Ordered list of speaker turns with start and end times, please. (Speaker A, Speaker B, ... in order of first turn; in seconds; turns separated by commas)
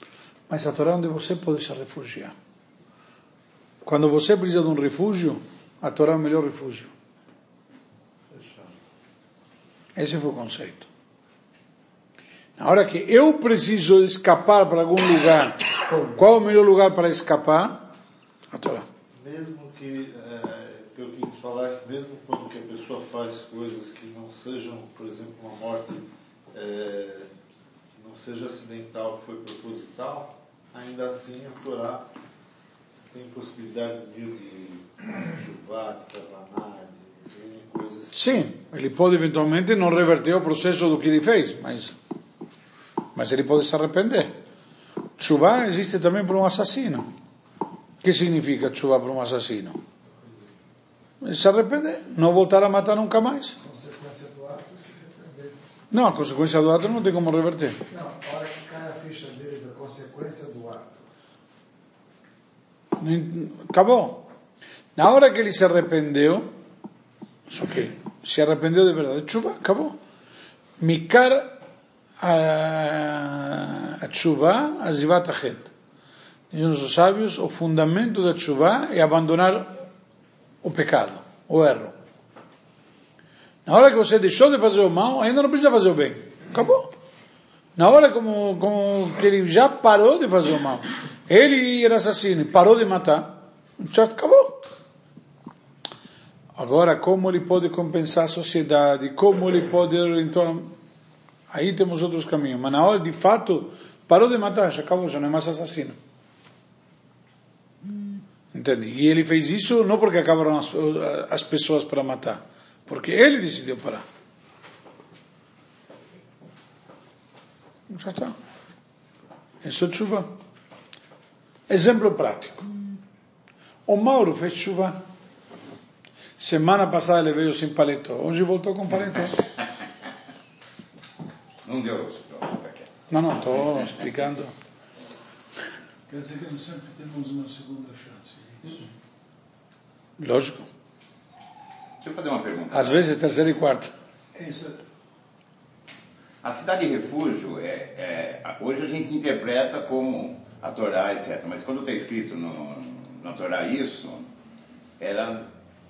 Speaker A: 0.5-2.3, Speaker A: 3.9-6.9, Speaker B: 8.3-8.8, Speaker A: 10.0-10.9, Speaker A: 12.6-17.9, Speaker A: 18.5-18.9, Speaker B: 19.1-27.3, Speaker B: 27.9-32.1, Speaker B: 32.9-38.2, Speaker A: 38.1-42.0, Speaker A: 43.1-44.4, Speaker A: 45.2-47.1, Speaker A: 48.0-49.8, Speaker A: 51.2-53.6, Speaker C: 53.6-55.7, Speaker A: 55.9-57.8, Speaker C: 57.9-61.0, Speaker A: 63.0-64.3, Speaker A: 65.0-66.5, Speaker A: 67.5-70.0, Speaker A: 70.8-71.6, Speaker A: 72.2-75.7, Speaker A: 76.5-79.8, Speaker A: 80.6-81.9, Speaker A: 83.7-86.9, Speaker A: 87.8-94.6, Speaker A: 96.6-100.7, Speaker A: 101.5-106.0, Speaker A: 108.5-114.0, Speaker A: 117.9-118.3, Speaker A: 119.6-120.3, Speaker A: 121.7-122.7, Speaker A: 123.9-125.0, Speaker A: 126.4-129.4, Speaker D: 131.7-132.9, Speaker A: 133.1-134.5, Speaker E: 136.1-138.9, Speaker A: 140.2-140.7, Speaker D: 142.0-143.1, Speaker A: 142.7-143.9, Speaker E: 144.3-144.8, Speaker D: 146.4-154.3, Speaker D: 155.0-155.5